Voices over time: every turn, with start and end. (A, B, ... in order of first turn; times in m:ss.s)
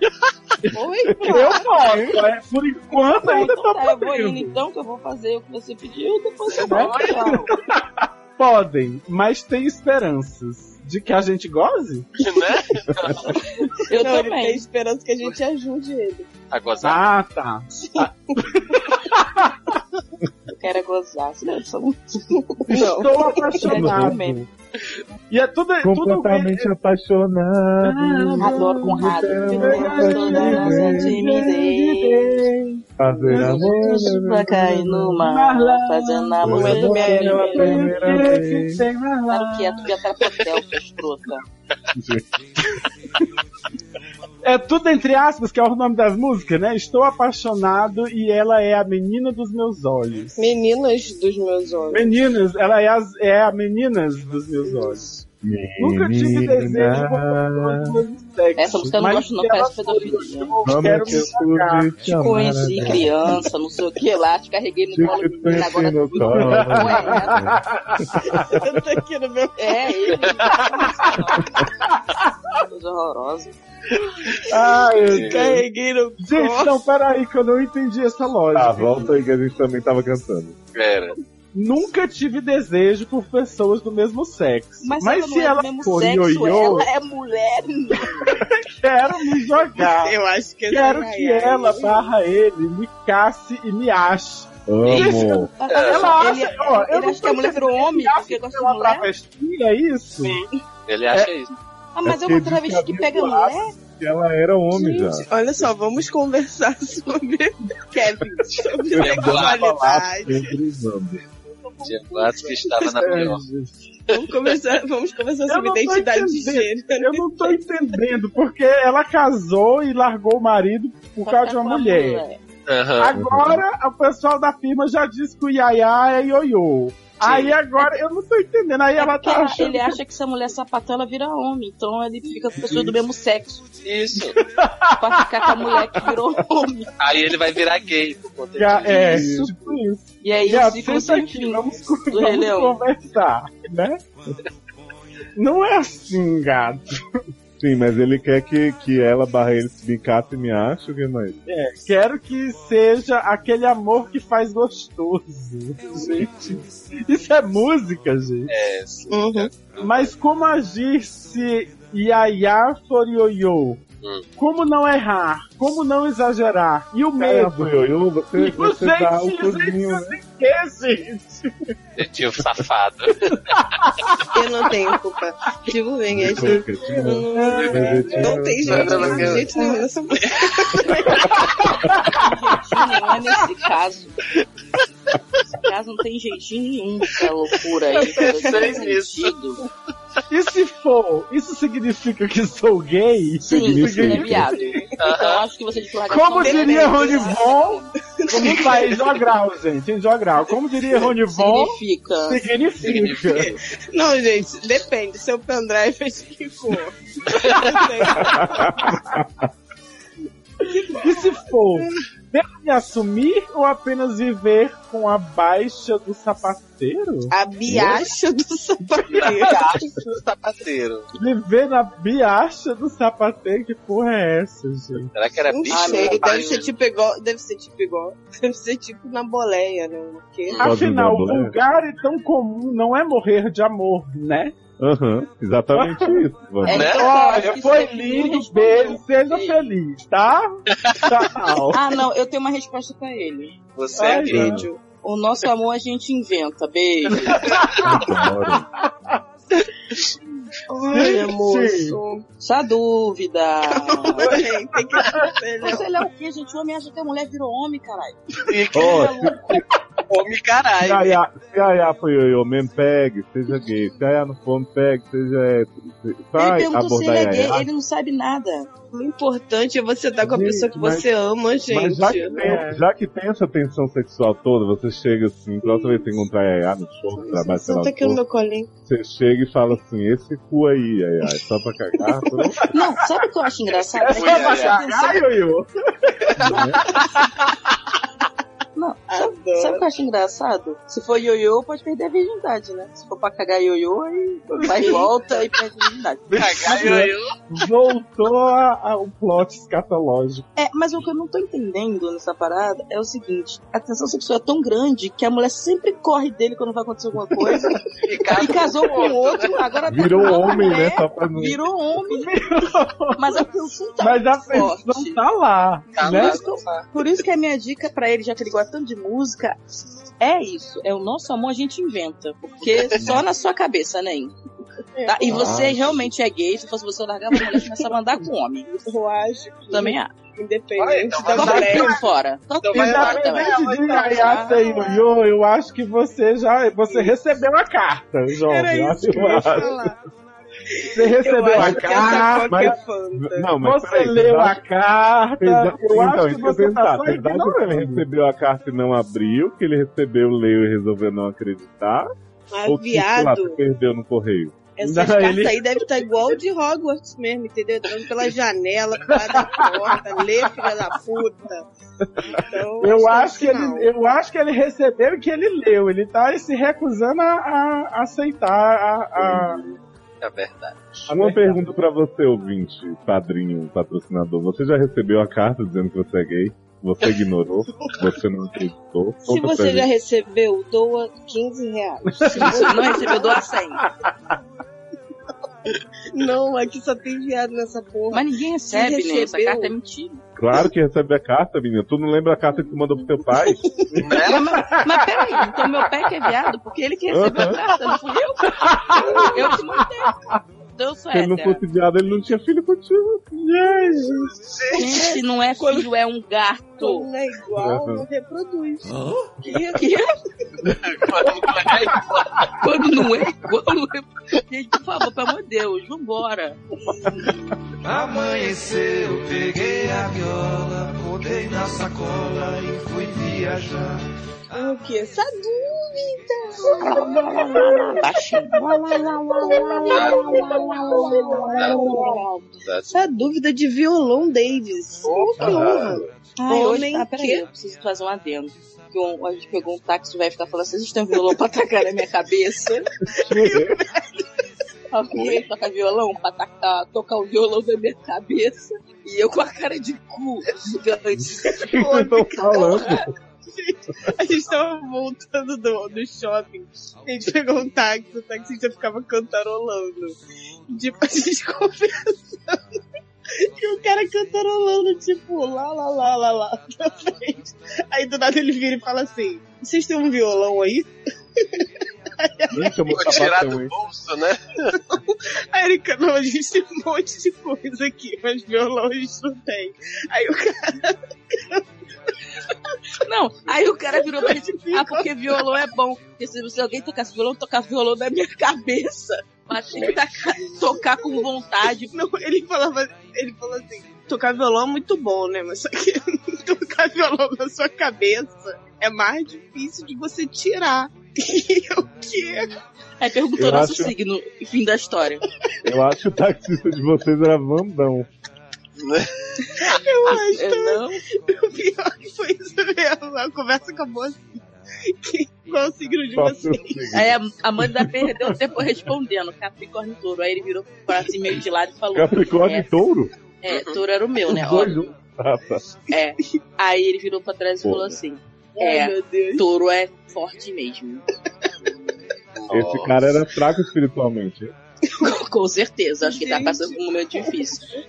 0:00.6-0:04.6 A
0:00.7-0:02.2 B
0:01.3-0:01.6 C
0:03.2-0:07.5 C
0:06.5-0:07.4 D
0:06.7-0:12.3 A
0:12.2-0:13.3 D
0:13.6-0:14.6 C
0:13.9-0:16.3 B
0:16.5-0:17.0 D
0:16.8-0:19.8 A
0:17.9-0:18.4 B
0:20.5-0:22.0 C
0:22.3-0:23.7 B
0:22.7-0:24.5 A
0:23.6-0:24.4 C
0:23.7-0:24.2 E
0:25.3-0:26.7 A
0:25.8-0:31.2 E
0:27.8-0:28.9 A
0:28.4-0:32.5 C
0:29.5-0:39.9 A
0:33.0-0:35.2 E
0:33.3-0:37.8 C
0:36.4-0:38.9 E
0:36.4-0:37.9 B
0:39.3-0:41.4 C
0:41.9-0:42.2 E
0:44.4-0:50.4 A
0:50.4-0:52.2 B
0:51.9-0:55.1 A
0:54.6-0:55.0 B
0:55.4-0:58.0 E
0:55.8-1:01.9 A
0:58.6-1:00.6 C
1:00.6-1:03.4 E
1:02.1-1:07.5 C
1:02.7-1:03.3 A
1:04.9-1:08.8 E
1:06.2-1:08.4 A
1:08.2-1:10.5 B
1:09.6-1:11.7 C
1:12.0-1:12.3 A
1:12.5-1:13.6 C
1:14.4-1:15.6 A
1:15.0-1:15.5 D
1:15.1-1:16.8 B
1:16.2-1:19.2 A
1:18.5-1:20.6 E
1:20.7-1:21.2 D
1:21.5-1:26.9 A
1:24.8-1:28.4 C
1:28.2-1:30.2 A
1:29.8-1:32.1 B
1:30.7-1:40.4 A
1:34.7-1:35.5 E
1:34.9-1:35.1 D
1:35.6-1:39.1 C
1:35.7-1:36.1 D
1:40.9-1:41.5 D
1:42.0-1:43.7 C
1:42.0-1:45.3 E
1:44.8-1:50.5 B
1:48.9-1:51.2 E
1:49.0-1:49.6 D
1:51.8-1:52.2 B
1:51.8-1:53.4 D
1:52.7-1:53.8 A
1:54.1-1:57.6 B
1:55.5-2:02.2 A
2:01.2-2:02.4 C
2:02.7-2:03.2 D
2:03.0-2:10.0 A
2:03.1-2:03.6 E
2:07.2-2:07.6 D
2:09.0-2:13.6 C
2:12.6-2:12.9 A
2:13.8-2:14.4 D
2:14.2-2:16.0 A
2:15.0-2:16.9 C
2:17.0-2:19.2 D
2:18.6-2:24.0 A
2:19.1-2:19.8 E
2:20.2-2:22.8 C
2:25.4-2:27.2 A
2:27.6-2:31.4 E
2:31.5-2:38.5 A
2:36.0-2:36.6 E
2:38.5-2:40.1 D
2:39.1-2:39.6 B
2:39.8-2:43.8 A
2:44.4-2:47.8 A
2:47.2-2:50.2 E
2:48.4-2:51.7 A
2:52.0-2:53.5 D
2:53.3-2:54.9 A
2:54.3-3:01.7 B
2:56.1-2:59.4 E
2:56.3-2:59.8 A
2:57.5-2:57.9 D
2:58.6-2:59.5 D
3:00.2-3:01.4 D
3:01.3-3:02.3 A
3:01.6-3:02.1 E
3:02.1-3:04.2 C
3:05.5-3:09.6 C
3:08.0-3:09.3 D
3:08.0-3:08.9 B
3:10.3-3:14.8 A
3:13.4-3:17.9 C
3:13.5-3:14.5 E
3:15.0-3:15.4 D
3:16.1-3:23.5 A
3:16.4-3:17.4 B
3:18.1-3:19.1 B
3:21.3-3:22.4 C
3:22.8-3:23.6 D
3:23.9-3:28.9 B
3:27.5-3:28.4 A
3:28.2-3:29.3 E
3:30.7-3:31.9 B
3:30.8-3:37.3 A
3:37.3-3:40.0 B
3:37.7-3:38.1 E
3:39.1-3:39.8 A
3:39.1-3:41.1 D
3:41.1-3:45.1 A
3:45.1-3:46.7 D
3:45.5-3:50.7 B
3:45.7-3:46.6 C
3:50.6-3:51.6 E
3:50.6-3:54.5 A
3:54.8-3:56.9 E
3:55.8-4:01.8 A
3:56.6-3:59.6 C
3:56.7-3:57.0 D
4:01.7-4:03.6 C
4:03.8-4:04.5 D
4:04.0-4:04.7 A
4:04.3-4:04.8 B
4:04.3-4:04.7 E
4:05.0-4:07.4 C
4:07.3-4:08.5 A
4:07.8-4:08.7 E
4:10.7-4:12.2 B
4:10.9-4:12.0 A
4:12.4-4:14.4 C
4:13.8-4:15.8 B
4:14.2-4:15.3 A
4:15.6-4:18.2 C
4:18.5-4:19.3 D
4:18.7-4:19.5 C
4:18.7-4:19.6 E
4:20.1-4:21.2 D
4:20.8-4:27.7 E
4:26.4-4:28.7 C
4:28.9-4:32.7 B
4:30.2-4:31.0 E
4:31.7-4:38.2 E
4:32.1-4:32.8 A
4:35.6-4:36.2 B
4:37.2-4:38.7 B
4:38.9-4:42.7 E
4:42.0-4:42.3 B
4:42.6-4:42.8 A
4:42.7-4:45.2 C
4:44.0-4:47.6 A
4:44.1-4:44.8 D
4:46.4-4:46.8 E
4:48.8-4:56.7 C
4:49.1-4:49.9 B
4:54.6-4:55.1 A
4:56.3-5:00.5 A
4:56.3-4:57.3 D
5:00.6-5:07.8 C
5:08.0-5:09.5 D
5:08.3-5:12.3 C
5:09.9-5:11.6 E
5:12.1-5:13.5 A
5:13.2-5:15.2 C
5:14.0-5:16.4 A
5:16.0-5:16.9 D
5:16.0-5:19.6 C
5:20.2-5:24.3 C
5:25.0-5:25.5 B
5:25.1-5:28.7 C
5:25.3-5:26.0 E
5:28.7-5:32.0 B
5:29.7-5:30.1 C
5:30.8-5:32.0 D
5:31.3-5:34.6 C
5:31.4-5:32.0 A
5:32.6-5:33.3 D
5:32.7-5:39.7 A
5:32.8-5:35.1 B
5:36.9-5:37.2 B
5:38.4-5:40.0 B
5:39.0-5:39.9 E
5:40.7-5:43.5 B
5:40.9-5:42.8 A
5:41.6-5:44.6 E
5:43.6-5:48.0 A
5:45.4-5:52.1 E
5:52.5-5:53.6 B
5:52.7-5:54.6 E
5:54.8-6:01.7 B
5:54.8-5:56.2 A
5:59.1-6:00.9 A
6:02.2-6:09.6 A
6:02.3-6:03.9 B
6:09.2-6:09.8 E
6:10.2-6:10.8 D
6:11.1-6:11.8 A
6:11.1-6:19.9 E
6:19.2-6:23.5 B
6:22.1-6:23.2 A
6:22.3-6:23.8 C
6:26.1-6:29.7 B
6:28.1-6:30.2 C
6:30.4-6:33.7 E
6:33.2-6:34.0 B
6:34.0-6:34.7 D
6:34.0-6:35.9 A
6:34.2-6:40.2 C
6:37.1-6:37.6 E
6:38.5-6:40.4 A
6:40.7-6:41.6 C
6:41.1-6:43.4 E
6:43.4-6:44.3 A
6:44.4-6:44.8 D
6:44.7-6:47.1 C
6:45.6-6:45.9 B
6:46.8-6:50.0 B
6:47.6-6:48.0 E
6:49.8-6:50.1 C
6:50.8-6:52.5 D
6:51.3-6:52.1 A
6:52.6-6:56.6 C
6:57.8-7:04.0 F
7:04.5-7:17.4 B
7:06.8-7:10.7 C
7:07.6-7:07.8 A
7:09.8-7:10.1 A
7:09.9-7:10.7 D
7:10.7-7:12.0 A
7:11.4-7:12.1 C
7:11.5-7:11.8 D
7:12.6-7:13.0 D
7:15.0-7:15.9 D
7:15.4-7:16.0 E
7:16.4-7:22.9 C
7:23.1-7:24.2 B
7:23.2-7:23.8 E
7:24.9-7:31.5 C
7:31.5-7:33.1 E
7:31.5-7:40.2 B
7:32.6-7:33.0 C
7:40.7-7:42.6 B
7:43.4-7:53.2 B
7:52.5-7:53.7 E
7:52.9-7:54.8 D
7:54.7-8:01.6 B
8:03.0-8:11.9 C
8:04.0-8:05.6 B
8:09.7-8:11.3 B
8:11.8-8:22.6 B
8:23.0-8:25.2 C
8:23.4-8:24.0 E
8:25.6-8:28.1 E
8:28.8-8:29.1 D
8:29.4-8:37.0 B
8:30.1-8:31.0 C
8:36.1-8:37.2 E
8:36.9-8:42.7 C
8:41.9-8:43.1 E
8:43.4-8:44.8 C
8:43.5-8:43.8 D
8:44.3-8:45.6 E
8:45.9-8:51.1 C
8:47.6-8:48.0 E
8:48.6-8:49.4 B
8:52.4-8:53.0 D
8:52.5-8:54.5 E
8:54.9-8:55.2 B
8:55.0-8:57.7 C
8:56.0-8:57.6 B